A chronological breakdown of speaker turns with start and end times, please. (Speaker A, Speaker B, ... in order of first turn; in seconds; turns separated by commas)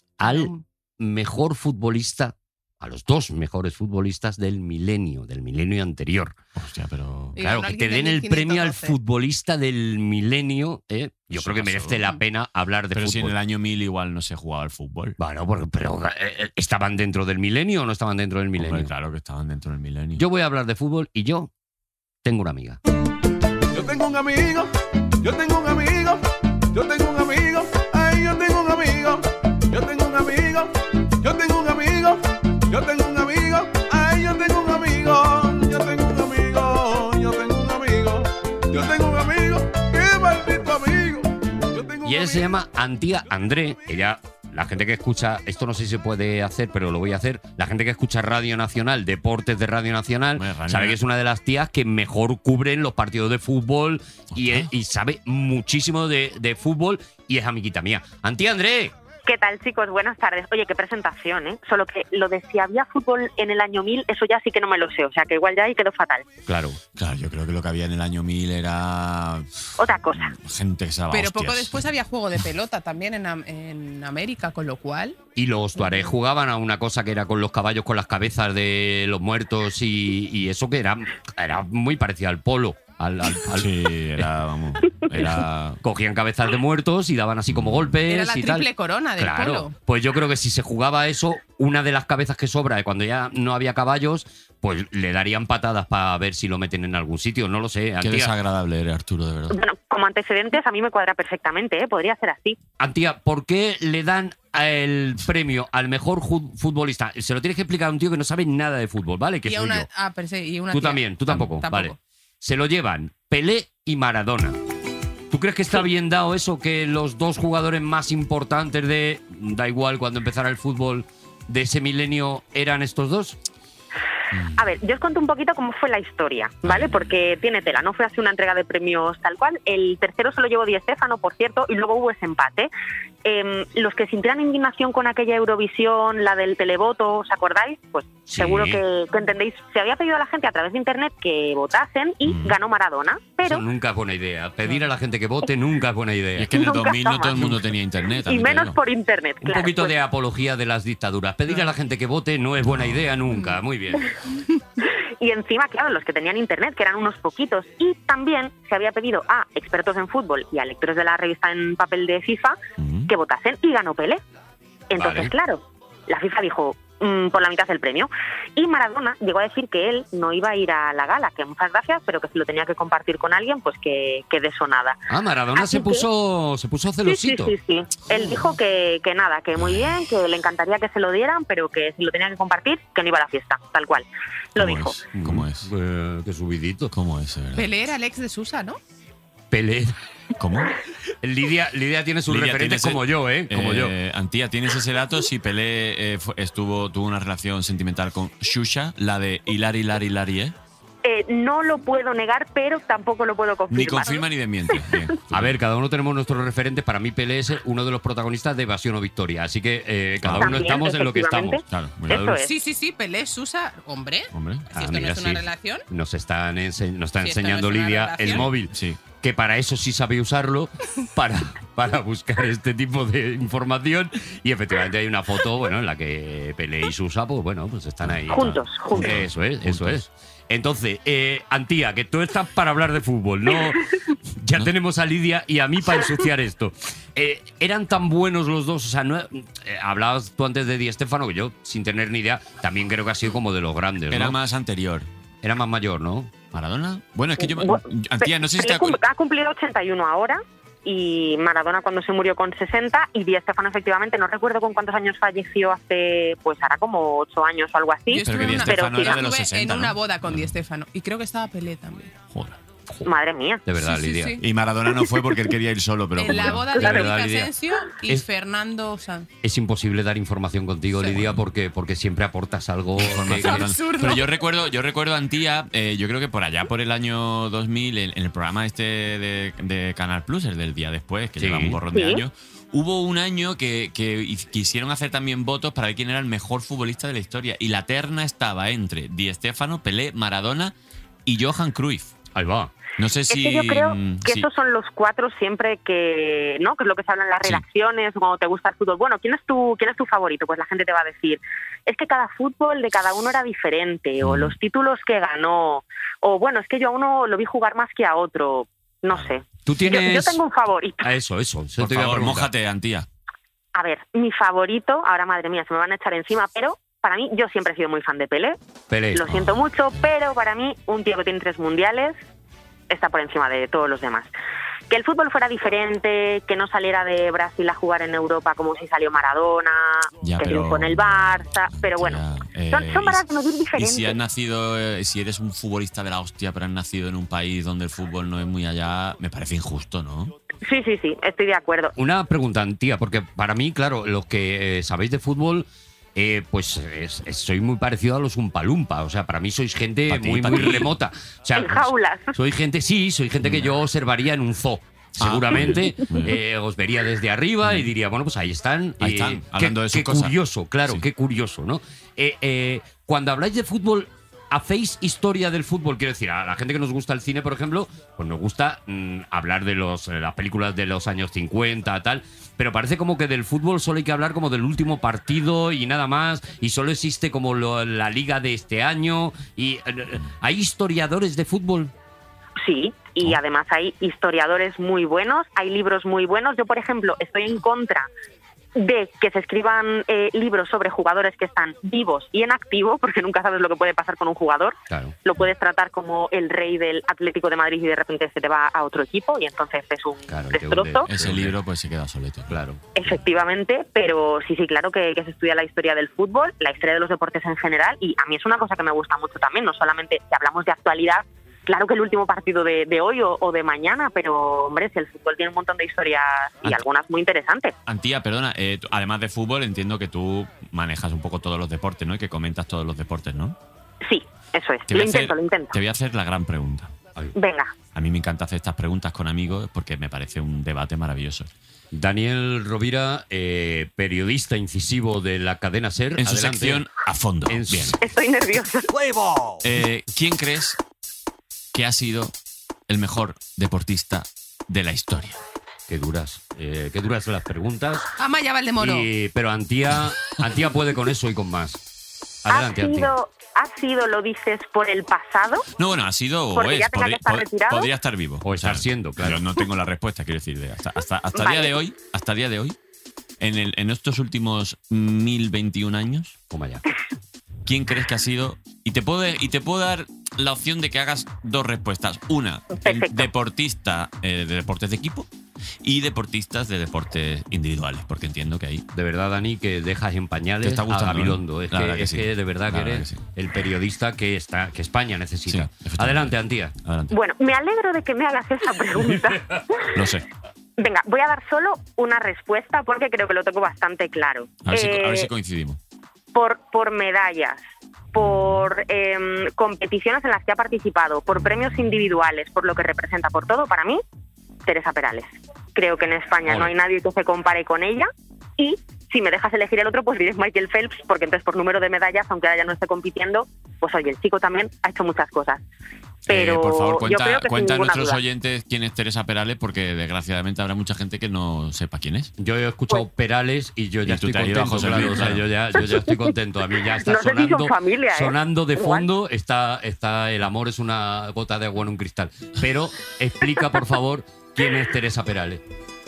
Speaker A: 0.2-6.4, Speaker B: 0.2-0.6, Speaker C: 6.6-7.4, Speaker B: 7.4-9.0, Speaker A: 7.4-13.3, Speaker C: 11.3-12.1, Speaker C: 12.9-15.2, Speaker A: 15.2-18.9, Speaker C: 18.6-20.2, Speaker A: 20.2-21.5, Speaker A: 22.2-22.8, Speaker D: 23.8-24.7, Speaker D: 25.2-26.2, Speaker D: 26.7-30.7, Speaker D: 31.2-32.2, Speaker D: 32.7-42.1, Speaker A: 42.0-58.9, Speaker C: 50.4-51.0, Speaker C: 54.4-54.7, Speaker E: 59.3-66.3, Speaker A: 66.5-66.8, Speaker C: 67.0-71.8, Speaker E: 69.8-70.3, Speaker B: 71.1-75.2, Speaker A: 75.4-84.3, Speaker C: 83.5-85.8, Speaker A: 85.1-98.3, Speaker C: 87.5-87.9, Speaker B: 88.1-89.8, Speaker C: 98.0-99.6, Speaker E: 99.5-102.6, Speaker A: 102.8-109.9, Speaker B: 109.5-112.0, Speaker A: 110.7-114.6, Speaker A: 115.3-123.4, Speaker C: 124.3-124.6, Speaker E: 124.6-132.7, Speaker C: 126.6-127.2, Speaker E: 133.2-143.6, Speaker A: 138.3-138.8, Speaker C: 142.2-142.6, Speaker A: 143.4-146.5, Speaker C: 146.4-148.8, Speaker E: 146.5-147.4, Speaker E: 148.2-149.9, Speaker A: 149.4-154.1, Speaker C: 152.7-153.1, Speaker E: 154.8-164.2, Speaker C: 162.8-163.1, Speaker E: 164.9-175.0, Speaker A: 165.0-165.3, Speaker A: 175.1-177.6, Speaker E: 175.6-176.1, Speaker E: 177.1-185.0, Speaker C: 179.6-180.1, Speaker C: 184.6-185.7, Speaker A: 185.1-186.9, Speaker C: 186.9-187.7, Speaker B: 187.6-188.8, Speaker A: 189.5-189.9, Speaker C: 190.4-190.8, Speaker A: 191.2-193.9, Speaker C: 192.3-200.6, Speaker E: 201.0-205.0, Speaker C: 203.7-205.6, Speaker A: 205.3-212.4, Speaker C: 210.2-210.7, Speaker E: 210.3-212.5, Speaker C: 211.7-212.3, Speaker B: 212.4-215.9, Speaker C: 214.3-214.7, Speaker A: 214.7-244.4, Speaker B: 217.2-218.4, Speaker C: 218.3-219.0, Speaker C: 228.0-230.0, Speaker E: 228.3-229.2, Speaker C: 244.1-245.1, Speaker A: 245.4-246.3, Speaker C: 246.5-249.0, Speaker E: 247.4-259.2, Speaker B: 258.1-262.1, Speaker C: 258.2-260.6, Speaker C: 262.3-262.6, Speaker E: 263.0-263.6, Speaker A: 263.7-264.4, Speaker B: 263.8-264.4, Speaker C: 264.4-266.9, Speaker B: 266.2-269.3, Speaker A: 266.7-267.5, Speaker A: 269.4-273.7, Speaker C: 271.1-271.4, Speaker C: 273.0-290.7, Speaker B: 273.3-274.3, Speaker A: 281.4-281.8, Speaker E: 281.9-282.2, Speaker C: 291.3-292.1, Speaker A: 292.3-292.7, Speaker C: 293.0-294.5, Speaker E: 293.3-311.1, Speaker C: 304.2-304.6, Speaker C: 309.1-309.4, Speaker A: 309.7-310.4, Speaker A: 311.0-312.5, Speaker C: 311.8-313.1, Speaker E: 313.7-318.6, Speaker A: 318.9-319.3, Speaker E: 319.1-322.2, Speaker C: 319.3-320.1, Speaker E: 322.9-324.3, Speaker E: 324.9-334.2, Speaker C: 330.2-340.3, Speaker E: 340.6-341.9, Speaker A: 342.0-381.9, Speaker C: 350.1-350.9, Speaker E: 351.6-352.3, Speaker C: 353.4-353.8, Speaker C: 355.2-356.4, Speaker C: 359.0-361.1, Speaker E: 382.6-388.1, Speaker E: 388.8-401.1, Speaker A: 394.9-395.2, Speaker A: 400.3-401.6, Speaker C: 401.1-403.1, Speaker A: 402.5-402.9, Speaker E: 402.9-417.7, Speaker C: 417.9-423.6, Speaker E: 424.0-425.8, Speaker C: 424.9-426.9, Speaker E: 427.4-427.7, Speaker C: 427.9-431.5, Speaker A: 431.9-436.9, Speaker C: 436.2-438.0, Speaker A: 437.5-438.0, Speaker E: 438.0-438.9, Speaker A: 438.9-439.6, Speaker C: 439.6-440.8, Speaker C: 441.7-442.3, Speaker C: 442.9-445.4, Speaker A: 445.9-448.1, Speaker B: 448.2-449.1, Speaker A: 448.8-451.8, Speaker A: 452.4-453.1, Speaker E: 452.5-455.7, Speaker C: 455.8-462.8, Speaker E: 456.6-457.9, Speaker A: 458.4-459.4, Speaker E: 461.3-461.8, Speaker C: 463.4-466.4, Speaker A: 466.5-466.8, Speaker C: 467.7-475.3, Speaker E: 472.7-473.3, Speaker C: 475.8-478.8, Speaker A: 478.9-486.8, Speaker C: 480.6-483.2, Speaker C: 485.5-487.1, Speaker E: 487.1-489.9, Speaker C: 489.9-490.2, Speaker E: 490.8-495.3, Speaker C: 494.6-495.8, Speaker E: 496.3-497.6, Speaker E: 498.1-504.0, Speaker E: 504.6-515.6, Speaker C: 516.3-522.3, Speaker E: 516.3-518.2, Speaker A: 522.4-535.6, Speaker C: 524.1-525.5, Speaker E: 526.9-529.1